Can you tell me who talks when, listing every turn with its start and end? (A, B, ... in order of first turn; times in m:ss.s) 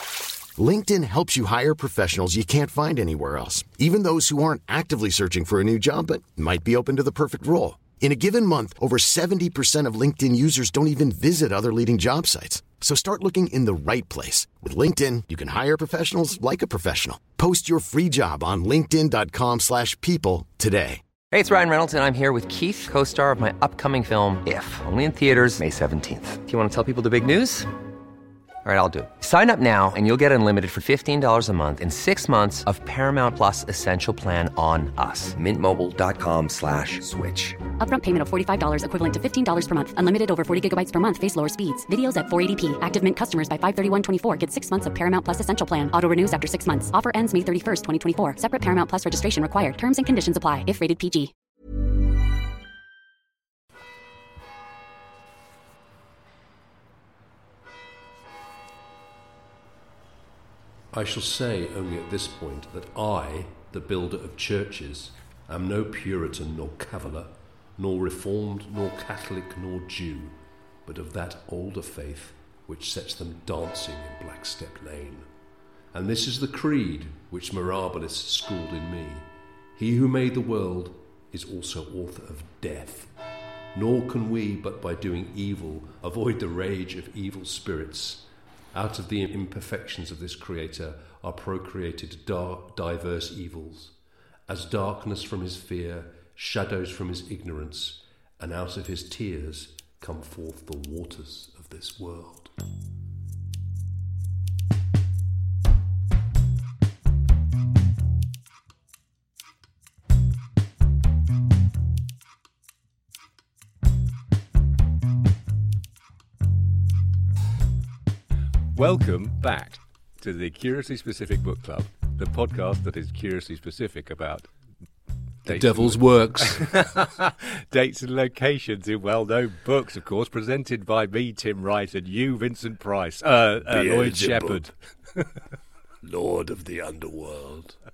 0:00.6-0:21.0 A
0:21.3-0:27.7 B
0:28.6-0:37.6 B
0:37.8-0:51.3 C
1:00.9-1:15.2 D
1:15.9-1:23.1 D
1:23.7-1:33.9 D
1:34.5-1:42.5 D
1:58.7-2:04.5 E
2:05.4-2:06.8 D
2:05.4-2:15.3 E
2:13.6-2:14.7 D
2:16.0-2:17.8 D